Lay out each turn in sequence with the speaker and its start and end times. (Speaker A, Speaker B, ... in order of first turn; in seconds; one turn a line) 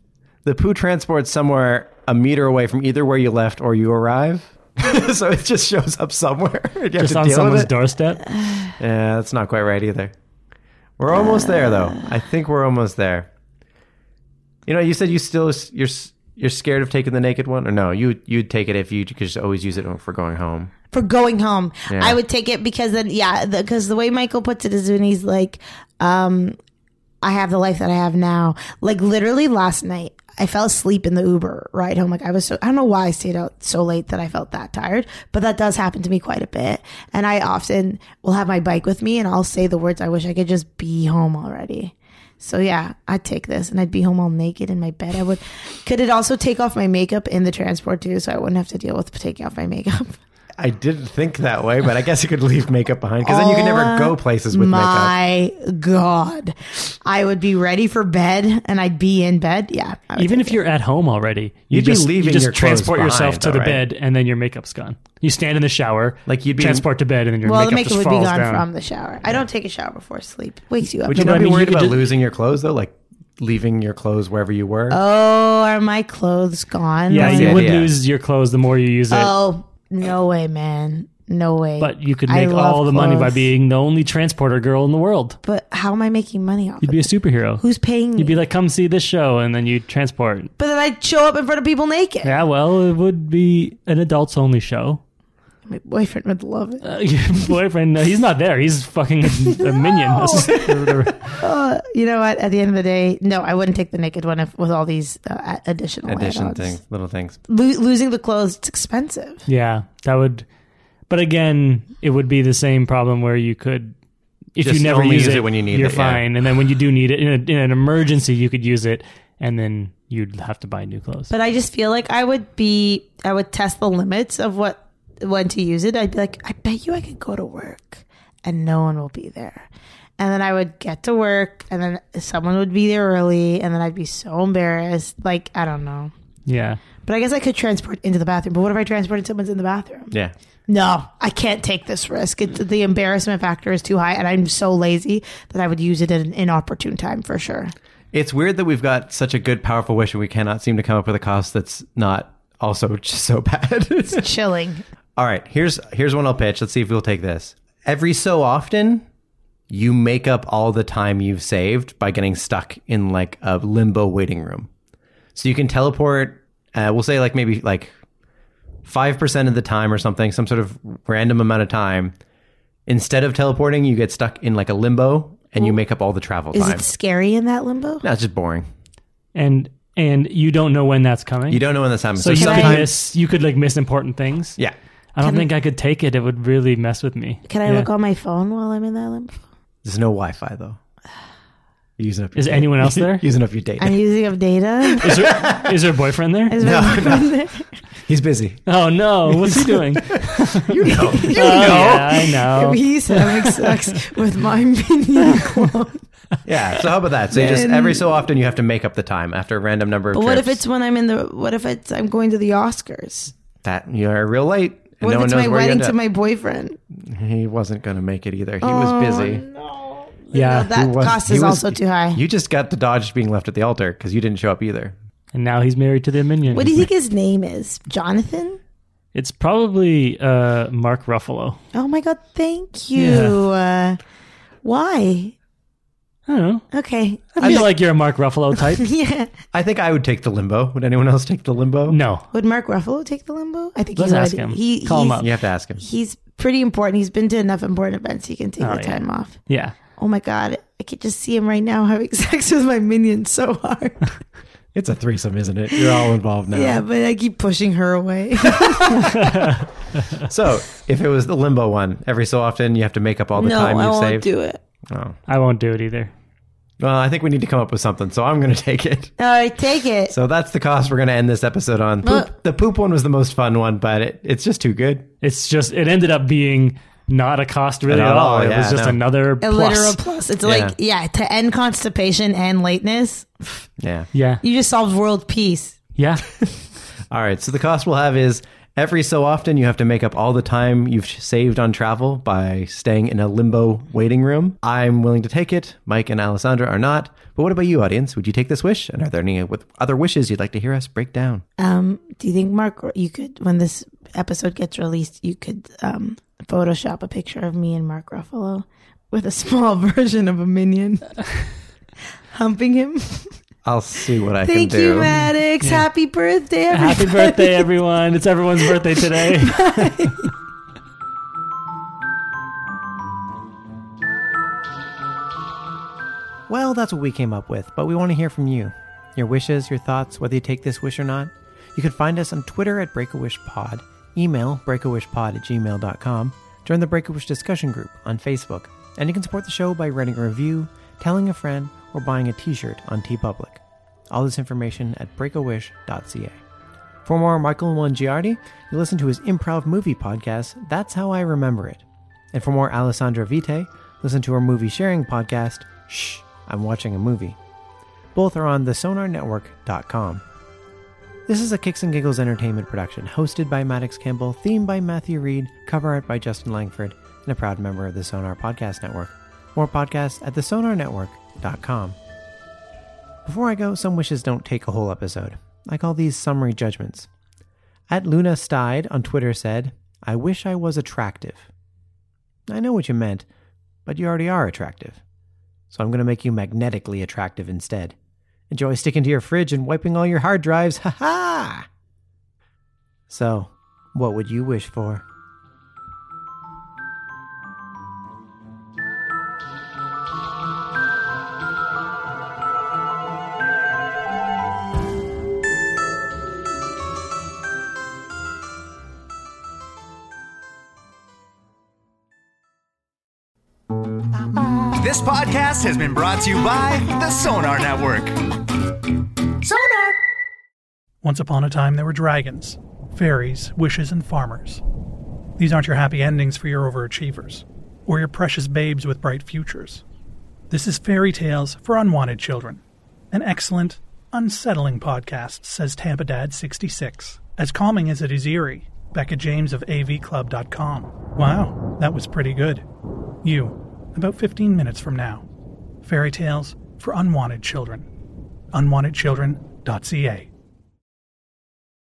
Speaker A: 0.4-7.7
Speaker B: 7.0-8.2
Speaker A: 8.8-10.1
Speaker A: 11.0-13.3
Speaker A: 14.7-20.7
Speaker C: 20.9-26.6
Speaker A: 21.9-22.2
Speaker C: 27.2-50.2
Speaker A: 50.6-55.1
Speaker C: 53.2-60.6
Speaker B: 60.2-68.7
Speaker A: 61.7-63.8
Speaker A: 66.3-66.8
Speaker C: 67.4-71.8
Speaker A: 71.1-75.0
Speaker B: 71.1-72.0
Speaker C: 74.9-77.7
Speaker B: 77.1-79.3
Speaker A: 77.2-77.9
Speaker C: 79.1-83.5
Speaker B: 81.8-85.4
Speaker C: 85.4-88.3
Speaker B: 86.8-87.6
Speaker B: 88.2-90.5
Speaker C: 90.6-92.4
Speaker B: 92.2-95.0
Speaker C: 95.7-96.9
Speaker B: 96.8-101.4
Speaker C: 99.5-100.6
Speaker A: 100.3-100.9
Speaker C: 101.2-106.8
Speaker A: 106.1-107.4
Speaker C: 107.5-109.5
Speaker B: 109.5-110.4
Speaker B: 111.1-113.9
Speaker B: 114.5-121.3
Speaker A: 114.6-116.2
Speaker C: 121.3-129.7
Speaker C: 130.2-136.1
Speaker B: 136.4-136.8
Speaker C: 137.0-140.1
Speaker C: 140.7-147.7
Speaker A: 148.1-154.2
Speaker C: 154.1-154.8
Speaker A: 155.2-159.0
Speaker A: 159.7-164.7
Speaker A: 165.3-167.9
Speaker A: 168.8-172.1
Speaker A: 172.9-176.8
Speaker C: 176.5-178.0
Speaker A: 178.0-178.7
Speaker B: 179.3-181.6
Speaker A: 181.5-182.9
Speaker B: 182.2-184.6
Speaker C: 182.3-182.8
Speaker B: 185.1-187.9
Speaker C: 187.5-189.4
Speaker A: 189.8-190.8
Speaker A: 192.0-194.0
Speaker B: 192.3-193.2
Speaker C: 193.8-195.2
Speaker B: 195.0-196.6
Speaker A: 195.1-195.7
Speaker C: 196.5-197.7
Speaker A: 196.6-197.3
Speaker A: 198.1-198.6
Speaker B: 198.7-203.8
Speaker A: 199.3-202.2
Speaker C: 200.9-206.0
Speaker A: 206.4-210.6
Speaker C: 207.3-208.2
Speaker C: 210.1-213.3
Speaker A: 213.6-215.9
Speaker C: 215.0-216.8
Speaker A: 216.9-219.4
Speaker C: 218.6-222.2
Speaker B: 220.3-220.7
Speaker A: 220.7-224.9
Speaker B: 225.3-226.9
Speaker C: 226.5-228.6
Speaker B: 229.1-231.6
Speaker C: 231.7-234.0
Speaker B: 232.9-233.4
Speaker C: 234.6-235.3
Speaker B: 236.3-236.7
Speaker C: 236.7-237.7
Speaker B: 237.3-238.9
Speaker A: 237.4-237.7
Speaker C: 238.8-239.3
Speaker A: 239.5-242.0
Speaker B: 241.9-242.2
Speaker C: 242.3-245.2
Speaker B: 244.0-245.3
Speaker A: 245.2-245.8
Speaker C: 245.8-249.4
Speaker B: 248.6-249.7
Speaker C: 249.9-254.1
Speaker A: 254.7-256.8
Speaker C: 256.5-259.1
Speaker B: 259.0-259.6
Speaker A: 260.2-264.2
Speaker C: 263.4-264.6
Speaker A: 264.9-265.2
Speaker B: 265.3-266.1
Speaker A: 266.8-269.1
Speaker C: 269.2-270.1
Speaker A: 270.1-275.1
Speaker C: 272.0-272.3
Speaker B: 275.2-280.0
Speaker A: 277.9-279.0
Speaker C: 279.4-283.6
Speaker A: 280.4-280.7
Speaker A: 283.8-284.1
Speaker B: 284.1-284.4
Speaker C: 284.4-285.8
Speaker B: 286.0-286.2
Speaker A: 287.1-301.4
Speaker C: 301.6-311.1
Speaker C: 312.3-313.3
Speaker A: 313.6-315.1
Speaker C: 314.4-317.7
Speaker B: 315.1-315.9
Speaker B: 316.7-320.3
Speaker C: 318.9-320.3
Speaker A: 326.5-346.4
Speaker A: 347.0-357.4
Speaker A: 358.1-360.2
Speaker A: 361.3-371.9
Speaker A: 373.2-377.1
Speaker A: 377.9-381.5
Speaker A: 382.5-383.2
Speaker A: 383.9-385.0
Speaker A: 385.7-387.9
Speaker A: 388.5-391.7
Speaker A: 393.1-395.0
Speaker D: 414.4-418.3
Speaker E: 421.0-424.6
Speaker E: 425.4-429.8
Speaker E: 430.5-442.6
Speaker E: 443.2-445.2
Speaker E: 445.8-447.9
Speaker E: 448.5-450.3